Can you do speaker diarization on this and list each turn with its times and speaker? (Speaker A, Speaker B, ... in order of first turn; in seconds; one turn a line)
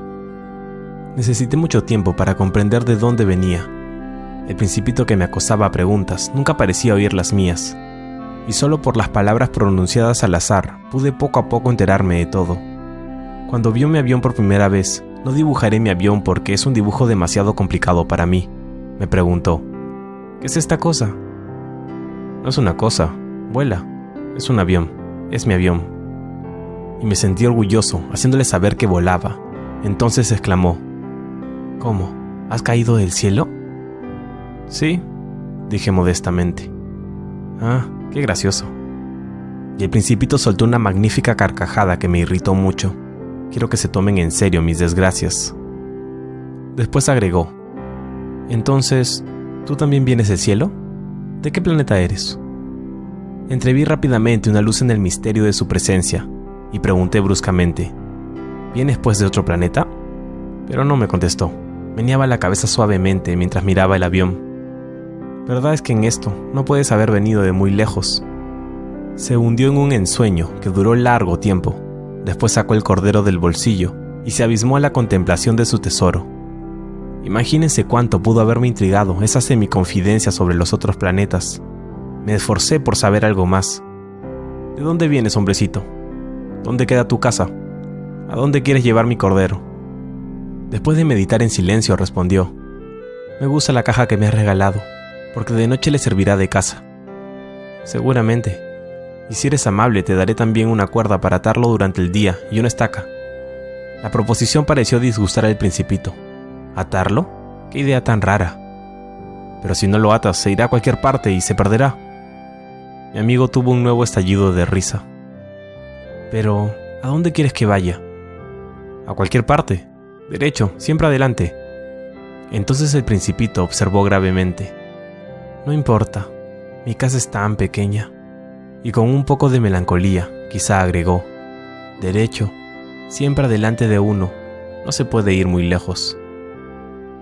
Speaker A: 1.1-3.7
Speaker A: 4.5-7.8
Speaker A: 8.4-12.6
Speaker A: 13.5-19.7
Speaker A: 20.4-21.2
Speaker A: 22.4-25.9
Speaker A: 27.0-30.8
Speaker A: 31.8-33.5
Speaker A: 34.7-35.0
Speaker A: 35.7-36.7
Speaker A: 37.6-38.7
Speaker A: 39.8-43.0
Speaker A: 43.5-45.5
Speaker A: 46.7-47.5
Speaker A: 48.5-50.7
Speaker A: 51.4-52.4
Speaker A: 53.5-57.9
Speaker A: 58.7-59.9
Speaker A: 60.7-64.4
Speaker A: 65.5-68.2
Speaker A: 69.2-76.3
Speaker A: 77.2-81.6
Speaker A: 82.2-83.8
Speaker A: 84.7-85.9
Speaker A: 86.6-87.5
Speaker A: 88.3-89.6
Speaker A: 90.7-92.5
Speaker A: 93.4-96.8
Speaker A: 97.8-98.6
Speaker A: 99.3-103.1
Speaker A: 104.0-106.2
Speaker A: 106.7-108.6
Speaker A: 109.6-112.0
Speaker A: 113.1-115.1
Speaker A: 116.3-118.0
Speaker A: 119.0-121.6
Speaker A: 122.5-124.7
Speaker A: 125.6-126.3
Speaker A: 126.8-128.1
Speaker A: 128.8-131.3
Speaker A: 132.0-132.6
Speaker A: 133.1-136.2